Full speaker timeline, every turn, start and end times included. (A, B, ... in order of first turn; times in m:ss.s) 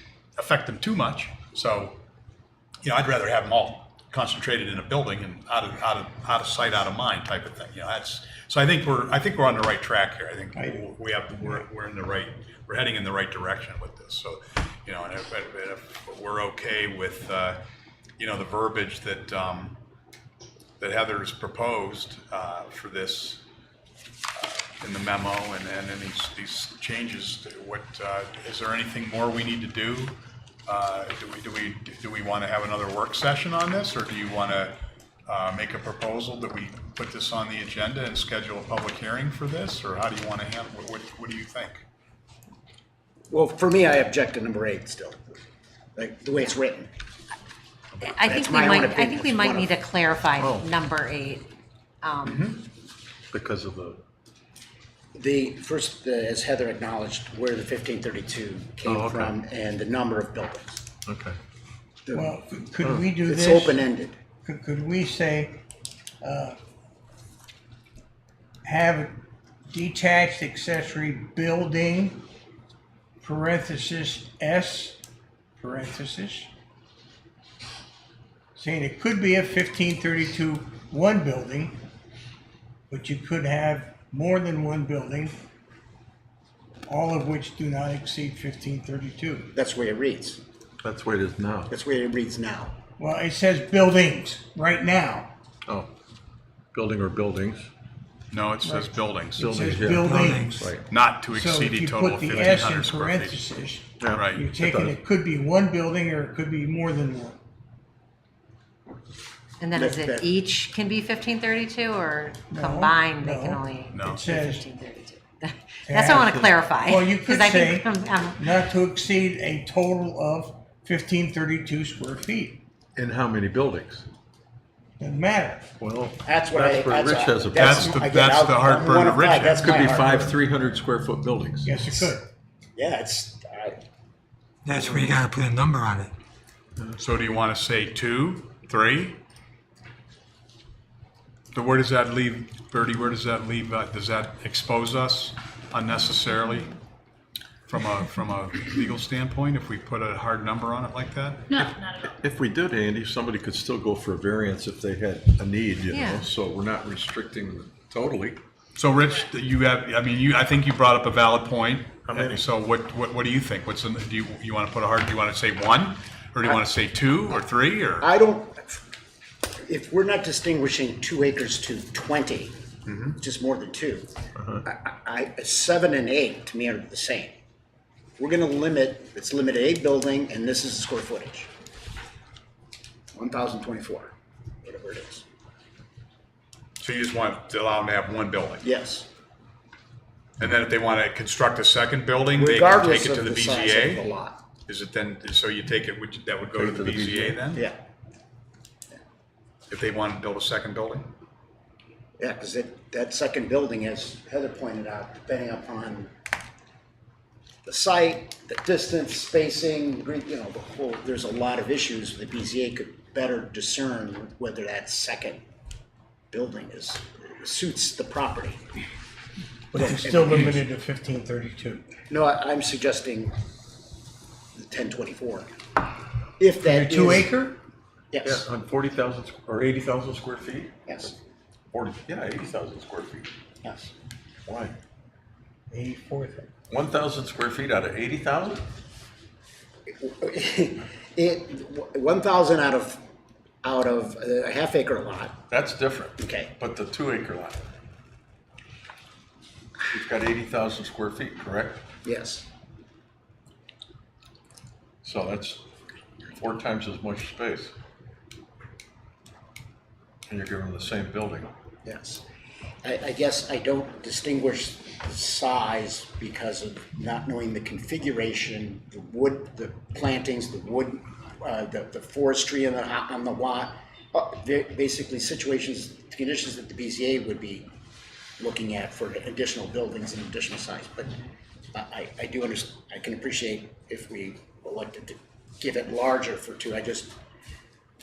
0:00.4-0:02.0 A
0:02.8-0:17.6 A
0:10.6-0:11.6 B
0:18.2-0:19.8 A
0:20.8-0:23.4 A
0:24.4-0:30.2 A
0:30.7-0:34.8 A
0:35.3-0:41.8 A
0:43.3-0:45.2 C
0:46.0-0:46.9 C
0:48.0-0:51.5 D
0:48.0-0:49.8 C
0:50.4-0:50.7 E
0:52.0-0:52.5 D
0:52.3-0:52.6 A
0:53.3-0:54.0 E
0:55.2-1:00.8 C
0:58.8-0:59.3 E
1:01.1-1:01.4 E
1:02.1-1:02.3 C
1:02.1-1:03.8 B
1:03.1-1:04.2 C
1:04.4-1:05.6 B
1:06.2-1:06.6 B
1:08.6-1:12.2 B
1:13.2-1:15.0 B
1:15.6-1:16.5 B
1:18.6-1:21.8 B
1:22.9-1:25.4 B
1:26.9-1:29.5 B
1:29.5-1:30.4 C
1:30.8-1:31.7 E
1:31.7-1:32.8 C
1:33.0-1:35.3 B
1:36.7-1:37.7 E
1:38.3-1:39.6 A
1:38.6-1:40.8 B
1:39.4-1:40.8 E
1:40.0-1:40.6 F
1:40.9-1:43.4 A
1:41.3-1:47.4 B
1:44.0-1:45.0 E
1:44.1-1:44.4 A
1:49.6-1:58.5 D
1:49.7-1:50.3 C
1:52.5-1:54.7 B
1:53.9-1:54.2 A
1:55.9-2:02.6 B
2:03.0-2:04.1 E
2:05.0-2:05.7 B
2:05.8-2:08.0 E
2:06.3-2:10.4 C
2:07.5-2:09.9 A
2:09.6-2:11.7 E
2:11.6-2:12.3 B
2:12.8-2:13.8 C
2:14.6-2:16.1 F
2:17.0-2:19.2 A
2:21.5-2:26.7 A
2:27.7-2:31.8 A
2:32.2-2:38.4 E
2:35.9-2:36.3 D
2:38.8-2:48.1 A
2:42.0-2:42.5 E
2:48.0-2:48.8 C
2:49.6-2:52.6 C
2:52.9-2:53.2 A
2:53.2-2:54.1 C
2:54.6-2:57.3 C
2:58.2-3:01.5 C
3:03.2-3:05.2 C
3:06.8-3:08.6 A
3:08.6-3:09.1 C
3:10.4-3:14.0 A
3:12.4-3:14.4 C
3:14.7-3:17.6 A
3:16.6-3:17.4 E
3:19.7-3:21.1 A
3:22.2-3:26.1 C
3:27.6-3:35.4 C
3:36.3-3:38.6 C
3:39.7-3:41.9 B
3:39.8-3:40.6 C
3:42.1-3:43.4 C
3:44.6-3:45.5 C
3:46.4-3:47.3 C
3:46.6-3:47.6 B
3:48.1-3:48.5 C
3:48.2-3:50.7 E
3:50.9-3:51.1 C
3:51.7-3:53.3 E
3:53.6-3:53.9 C
3:54.5-3:54.8 E
3:55.7-3:56.5 B
3:56.7-3:58.6 E
4:00.0-4:03.0 C
4:03.6-4:05.4 C
4:05.5-4:07.6 E
4:06.2-4:06.5 C
4:09.9-4:11.8 E
4:12.0-4:12.5 C
4:15.0-4:15.6 E
4:16.4-4:17.7 E
4:20.3-4:21.5 E
4:21.8-4:22.2 C
4:22.8-4:37.7 C
4:38.4-4:41.1 C
4:41.8-4:47.2 C